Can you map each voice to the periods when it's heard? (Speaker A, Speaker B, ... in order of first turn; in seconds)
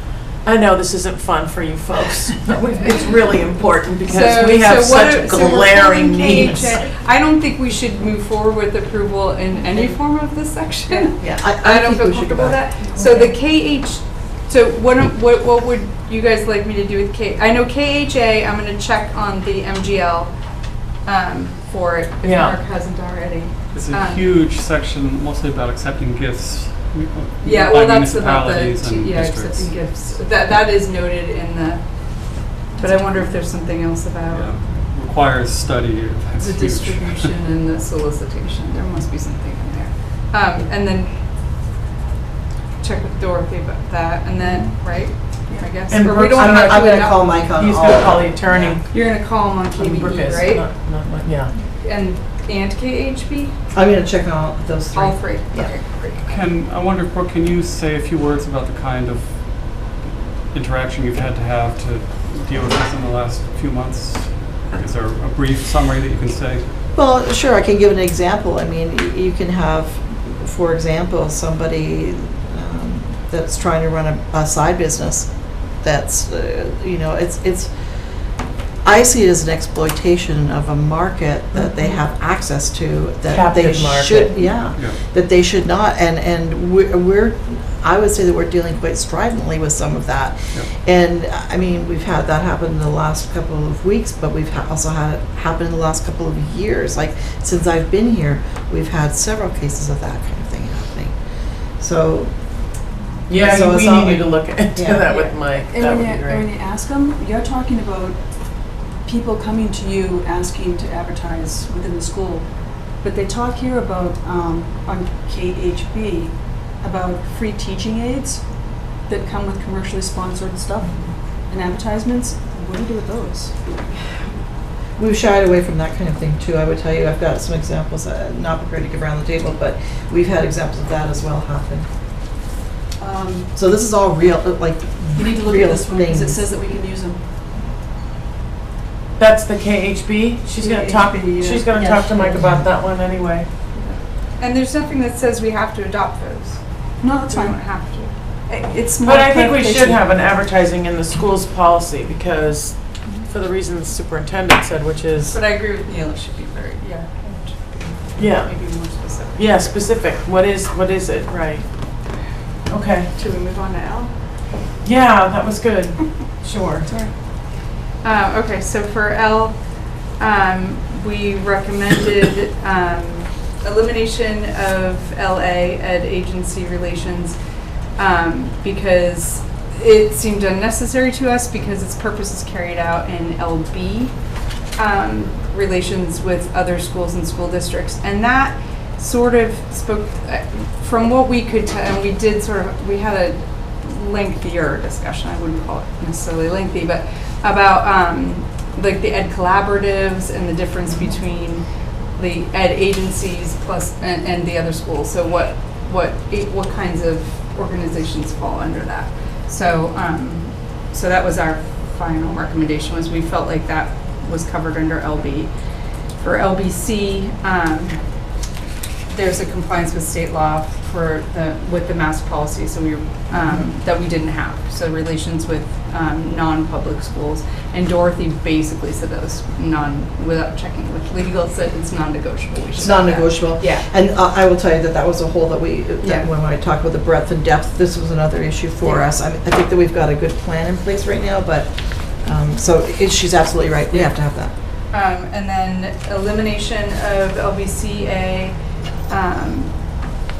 Speaker A: 0.4-6.8, 22.2-22.6, 45.9-46.8, 47.5-51.5, 81.5-82.0, 83.3-84.4, 103.3-106.5, 139.2-143.5, 149.0-155.4, 158.2-161.8, 162.7-163.1, 164.8-166.9
Speaker B: 4.0-24.3, 27.4-34.5, 36.4-41.2, 42.8-47.5, 48.5-53.6, 54.9-56.2, 144.4-146.6, 147.2-148.8, 155.3-159.8, 163.1-164.2, 168.0-177.4, 178.0-184.2, 184.7-215.5, 216.2-218.0, 219.1-233.9, 236.0-236.3, 238.8-239.1, 244.9-248.6, 249.1-250.0
Speaker C: 11.2-12.7, 46.0-48.8, 53.7-55.8, 66.9-77.7, 78.8-101.2, 101.8-102.4, 103.4-105.0, 125.0-131.9, 133.5-136.5, 223.3-223.7, 232.8-244.5
Speaker D: 12.8-13.1, 32.8-33.2, 105.1-124.3, 133.0-133.5, 135.2-137.2, 140.6-142.6, 147.0-147.6, 148.8-150.0, 166.8-167.1
Speaker E: 23.7-30.0, 34.3-37.3, 56.2-59.9, 60.5-66.7